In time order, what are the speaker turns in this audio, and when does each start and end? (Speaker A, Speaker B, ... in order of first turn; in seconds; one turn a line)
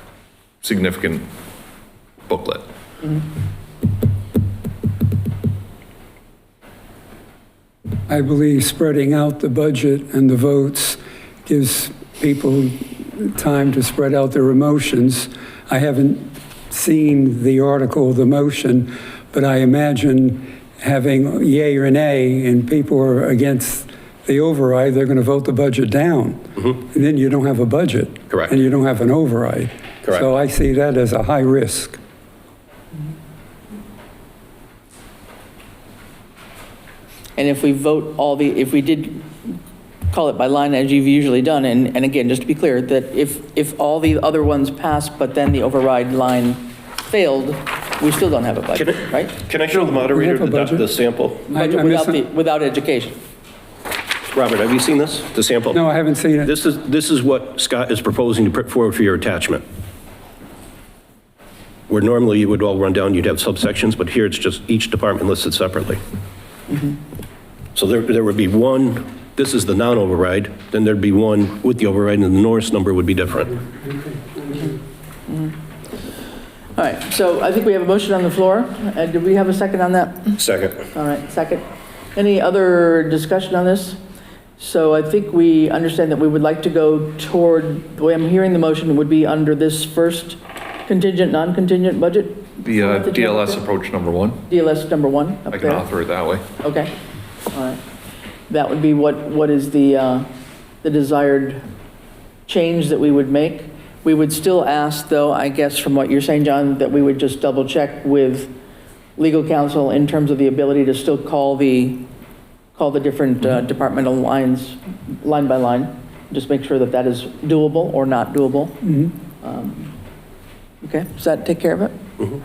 Speaker A: 0.6-1.3
Speaker A: 2.2-2.6
Speaker B: 8.1-32.0
Speaker C: 37.4-39.6
Speaker C: 40.1-49.4
Speaker D: 48.7-51.4
Speaker B: 49.9-50.8
Speaker C: 51.5-53.2
Speaker B: 51.5-52.2
Speaker D: 54.3-55.8
Speaker B: 55.7-56.5
Speaker D: 56.4-59.6
Speaker D: 61.9-66.0
Speaker C: 66.7-67.0
Speaker D: 67.7-73.6
Speaker C: 75.3-75.5
Speaker C: 76.8-80.4
Speaker D: 80.4-80.8
Speaker C: 80.9-84.0
Speaker C: 84.6-93.6
Speaker A: 92.6-94.4
Speaker C: 94.5-95.8
Speaker A: 95.5-96.4
Speaker C: 96.6-96.9
Speaker C: 97.5-97.8
Speaker C: 98.5-100.3
Speaker C: 100.8-101.6
Speaker C: 102.5-108.5
Speaker C: 109.2-112.1
Speaker C: 112.8-119.9
Speaker C: 120.8-122.0